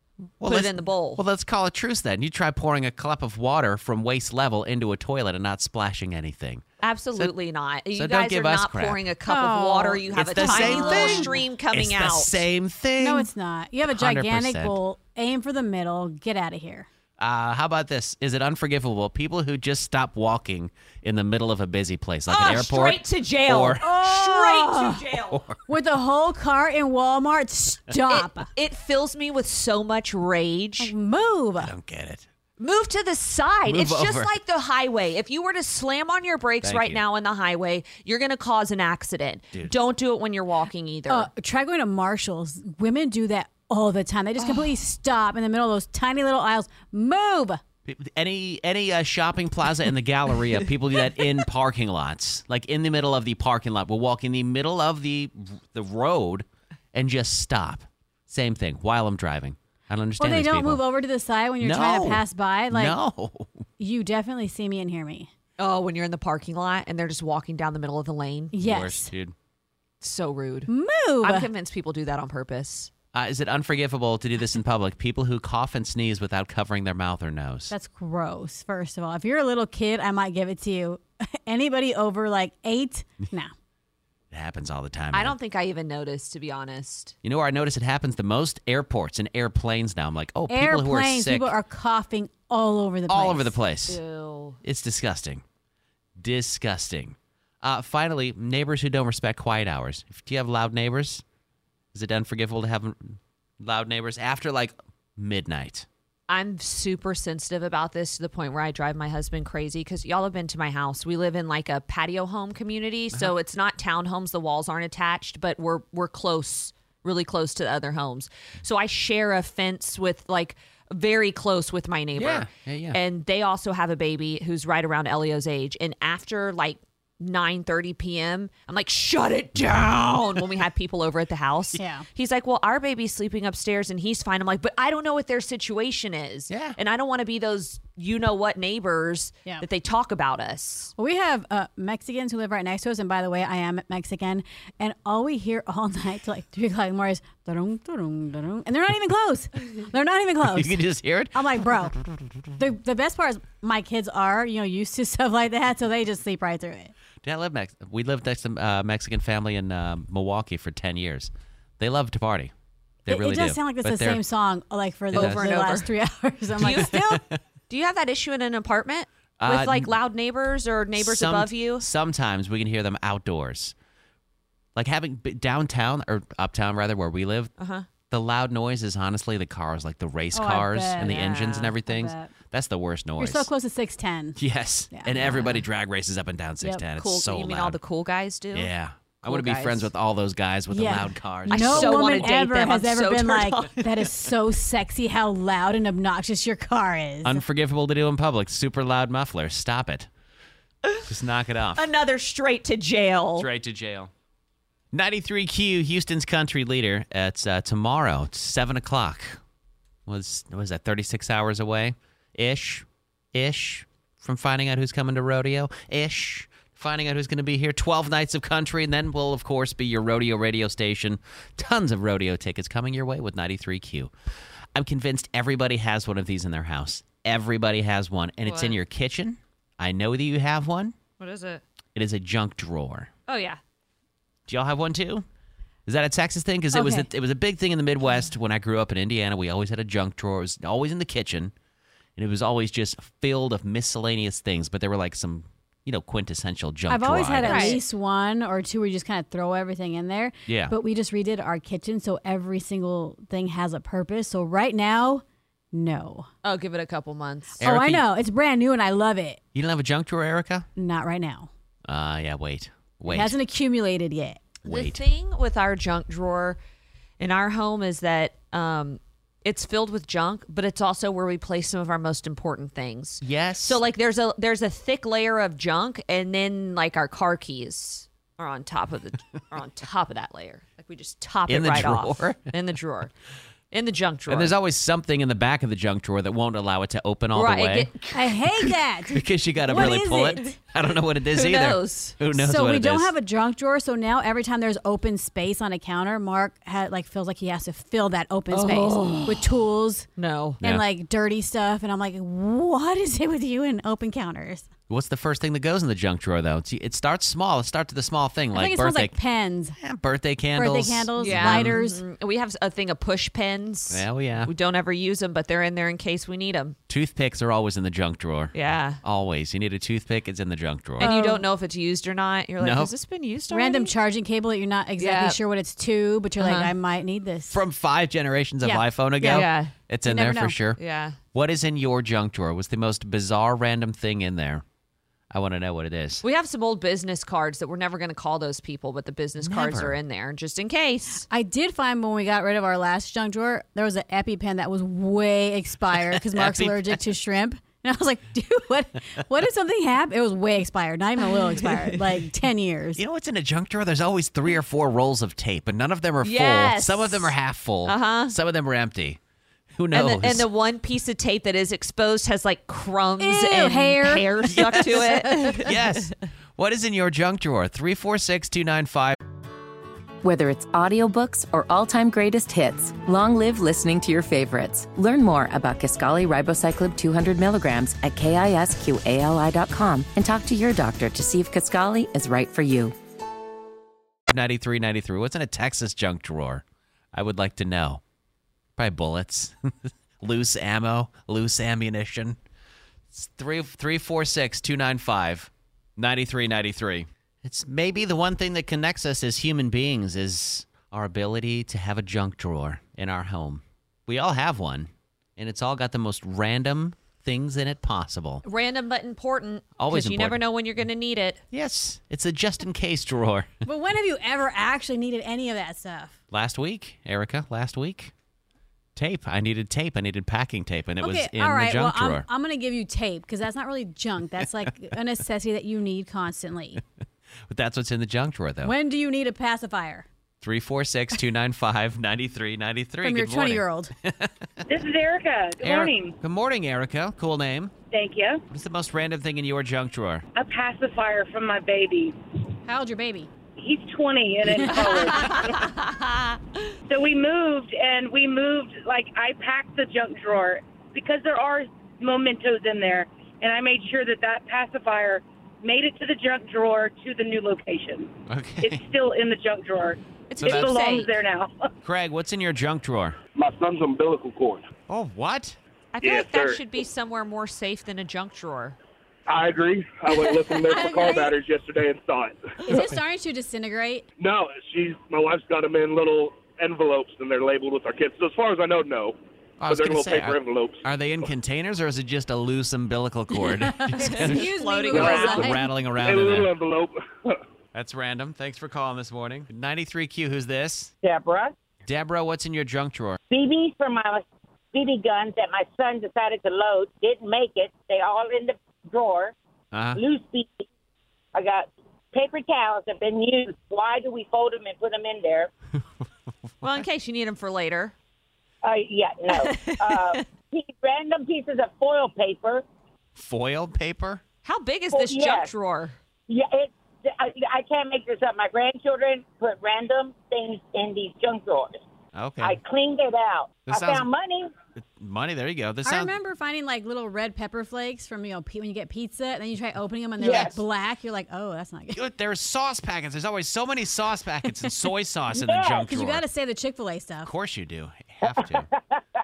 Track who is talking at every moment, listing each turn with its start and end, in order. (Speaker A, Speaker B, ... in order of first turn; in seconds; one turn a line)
Speaker A: 0.4-6.7
Speaker B: 0.5-1.2
Speaker B: 6.8-12.4
Speaker A: 7.9-9.0
Speaker C: 9.3-11.4
Speaker A: 10.1-13.3
Speaker C: 13.0-16.9
Speaker A: 13.9-14.8
Speaker A: 17.2-23.8
Speaker B: 22.3-25.4
Speaker C: 23.8-25.0
Speaker A: 25.3-25.6
Speaker C: 25.7-28.5
Speaker B: 28.1-30.9
Speaker C: 30.8-31.7
Speaker A: 31.6-32.3
Speaker B: 32.6-41.3
Speaker A: 33.7-34.3
Speaker A: 36.6-37.0
Speaker C: 41.1-47.6
Speaker B: 44.4-44.7
Speaker A: 47.9-60.8
Speaker C: 60.2-63.0
Speaker A: 61.6-63.6
Speaker C: 63.8-65.3
Speaker B: 65.6-68.6
Speaker C: 68.5-69.1
Speaker A: 68.6-69.3
Speaker B: 70.0-70.7
Speaker C: 70.7-71.5
Speaker B: 71.2-72.9
Speaker A: 73.1-77.7
Speaker C: 77.7-83.5
Speaker A: 84.3-85.4
Speaker B: 85.1-87.2
Speaker A: 87.2-91.5
Speaker C: 90.5-93.6
Speaker A: 93.1-94.0
Speaker B: 93.9-94.6
Speaker A: 94.6-95.4
Speaker A: 96.2-101.2
Speaker A: 101.9-105.9
Speaker B: 106.3-140.9
Speaker A: 122.2-123.0
Speaker A: 129.6-130.4
Speaker C: 131.8-132.1
Speaker A: 136.5-136.8
Speaker C: 141.0-152.0
Speaker A: 150.4-152.0
Speaker C: 152.6-156.9
Speaker A: 157.2-162.5
Speaker A: 163.1-164.2
Speaker C: 163.1-167.2
Speaker A: 165.1-165.5
Speaker B: 165.1-165.9
Speaker B: 166.6-167.0
Speaker A: 166.7-167.4
Speaker B: 167.7-171.8
Speaker A: 169.4-170.0
Speaker A: 171.0-173.8
Speaker A: 174.8-177.5
Speaker B: 177.6-177.9
Speaker A: 178.1-183.5
Speaker C: 180.3-181.3
Speaker B: 181.0-181.8
Speaker C: 181.9-182.3
Speaker C: 183.2-185.4
Speaker A: 184.4-187.8
Speaker B: 187.0-188.7
Speaker A: 188.5-192.3
Speaker B: 189.2-189.9
Speaker C: 190.7-197.4
Speaker B: 191.5-194.1
Speaker A: 197.2-200.1
Speaker A: 201.1-201.9
Speaker B: 201.8-203.5
Speaker A: 203.4-204.1
Speaker A: 204.9-209.4
Speaker A: 210.1-224.1
Speaker A: 224.7-231.0
Speaker B: 228.5-228.8
Speaker B: 231.2-231.6
Speaker A: 231.9-233.1
Speaker B: 233.3-233.6
Speaker A: 234.5-235.3
Speaker A: 235.9-241.5
Speaker C: 236.7-237.1
Speaker A: 242.2-247.8
Speaker C: 246.9-256.3
Speaker B: 247.4-247.8
Speaker A: 250.5-250.8
Speaker B: 256.4-257.6
Speaker A: 257.6-258.1
Speaker C: 257.6-259.4
Speaker A: 259.5-260.7
Speaker C: 260.8-261.5
Speaker A: 261.9-263.4
Speaker C: 263.1-264.4
Speaker A: 264.6-265.0
Speaker B: 264.7-266.6
Speaker B: 267.2-283.1
Speaker A: 273.2-273.8
Speaker A: 281.5-282.5
Speaker B: 283.7-284.5
Speaker A: 284.3-293.1
Speaker B: 287.3-288.3
Speaker C: 288.1-290.6
Speaker B: 291.3-292.2
Speaker C: 292.3-300.1
Speaker B: 298.5-299.5
Speaker B: 300.2-300.6
Speaker A: 300.6-300.9
Speaker C: 300.6-304.7
Speaker A: 304.9-309.2
Speaker C: 308.5-309.8
Speaker A: 309.8-311.8
Speaker C: 310.6-312.0
Speaker B: 311.2-316.8
Speaker A: 313.9-314.5
Speaker A: 316.9-321.1
Speaker B: 318.5-319.0
Speaker C: 321.0-321.4
Speaker B: 321.0-323.9
Speaker A: 322.6-322.9
Speaker C: 323.5-327.6
Speaker B: 325.0-325.4
Speaker B: 326.4-326.7
Speaker A: 327.5-330.8
Speaker C: 328.6-329.4
Speaker B: 329.2-329.7
Speaker C: 330.1-330.6
Speaker B: 330.8-331.2
Speaker A: 331.3-334.6
Speaker A: 335.3-336.2
Speaker B: 336.2-341.3
Speaker A: 339.4-340.0
Speaker C: 341.3-353.0
Speaker A: 345.9-347.0
Speaker B: 351.3-352.1
Speaker A: 353.0-359.2
Speaker B: 356.2-357.3
Speaker B: 357.9-358.4
Speaker A: 359.8-360.5
Speaker B: 359.9-365.8
Speaker C: 363.2-365.6
Speaker A: 364.5-369.2
Speaker D: 370.2-382.9
Speaker A: 384.3-388.0
Speaker A: 388.8-392.4
Speaker A: 393.1-408.4
Speaker B: 408.4-411.4
Speaker A: 409.8-410.4
Speaker A: 411.5-413.5
Speaker C: 413.6-416.2
Speaker A: 416.3-418.1
Speaker A: 419.0-422.2
Speaker C: 421.0-426.8
Speaker A: 427.5-428.7
Speaker C: 428.6-430.1
Speaker A: 430.4-434.6
Speaker C: 433.0-433.9
Speaker E: 434.7-436.1
Speaker A: 435.6-437.8
Speaker E: 437.9-438.4
Speaker A: 438.5-440.2
Speaker E: 440.4-442.2
Speaker C: 442.7-443.3
Speaker E: 443.6-445.8
Speaker C: 444.6-445.2
Speaker B: 444.7-446.7
Speaker E: 446.9-461.7
Speaker A: 458.3-458.8
Speaker B: 460.3-461.1
Speaker A: 460.4-460.7
Speaker A: 461.8-463.2
Speaker F: 463.4-464.7
Speaker A: 464.9-465.6
Speaker B: 465.9-468.8
Speaker F: 466.0-466.6
Speaker F: 469.3-472.6
Speaker B: 470.6-471.2
Speaker C: 470.7-471.3
Speaker C: 472.6-474.1
Speaker F: 474.2-480.8
Speaker A: 479.6-486.5
Speaker C: 483.7-485.6
Speaker B: 484.0-485.6
Speaker F: 484.9-485.4
Speaker F: 486.0-487.4
Speaker A: 487.7-490.9
Speaker G: 491.0-491.5
Speaker A: 491.9-493.2
Speaker G: 493.3-499.4
Speaker A: 499.7-500.0
Speaker G: 500.0-500.6
Speaker G: 501.3-505.5
Speaker B: 506.6-507.9
Speaker G: 508.6-512.6
Speaker B: 509.3-510.2
Speaker A: 513.1-514.2
Speaker B: 514.4-516.0
Speaker G: 514.9-515.5
Speaker G: 516.3-521.8
Speaker A: 522.1-522.6
Speaker G: 522.4-524.5
Speaker A: 523.7-524.1
Speaker A: 524.8-526.2
Speaker C: 525.9-532.0
Speaker G: 530.2-530.6
Speaker A: 531.9-536.2
Speaker G: 535.4-535.8
Speaker C: 535.9-537.3
Speaker A: 537.2-538.7
Speaker G: 538.7-539.0